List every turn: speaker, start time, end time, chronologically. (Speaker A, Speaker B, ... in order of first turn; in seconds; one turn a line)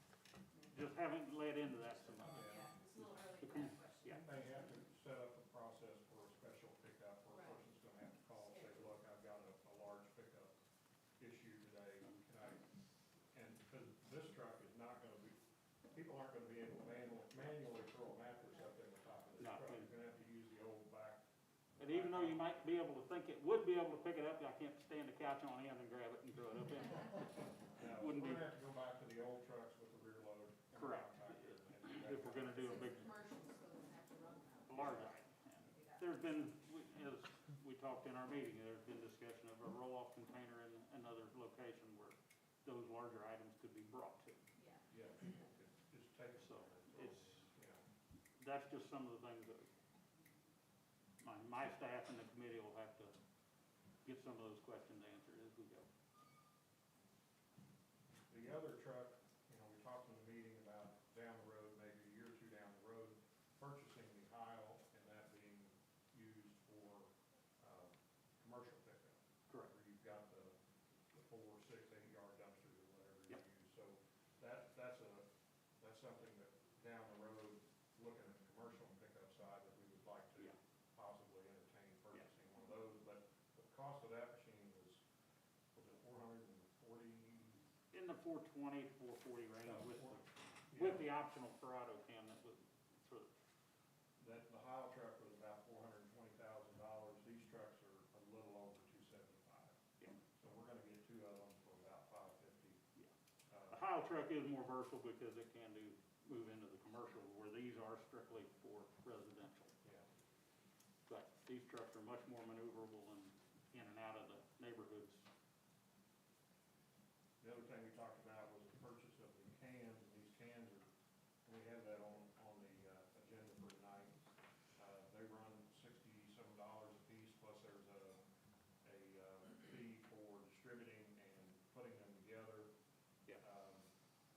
Speaker A: 0.7-4.2
Speaker B: 2.1-4.4
Speaker C: 2.2-2.6
Speaker C: 4.2-10.5
Speaker B: 7.3-7.6
Speaker C: 11.2-12.6
Speaker C: 13.3-15.4
Speaker C: 15.9-21.2
Speaker A: 19.4-19.9
Speaker C: 21.8-22.6
Speaker A: 21.8-28.5
Speaker C: 27.7-33.1
Speaker A: 30.8-33.1
Speaker B: 32.5-36.5
Speaker A: 34.7-44.4
Speaker B: 44.6-45.5
Speaker C: 44.9-47.8
Speaker A: 46.4-47.5
Speaker A: 48.4-49.7
Speaker A: 51.2-53.1
Speaker A: 54.0-55.9
Speaker C: 58.3-70.5
Speaker C: 71.1-75.3
Speaker C: 75.8-85.0
Speaker C: 85.7-87.6
Speaker A: 87.9-93.3
Speaker C: 89.7-91.1
Speaker C: 94.2-99.8
Speaker C: 100.4-102.8
Speaker C: 103.5-103.8
Speaker A: 103.7-109.7
Speaker A: 111.1-115.3
Speaker C: 117.4-120.9
Speaker C: 121.5-128.2
Speaker C: 128.8-132.7
Speaker C: 133.4-133.9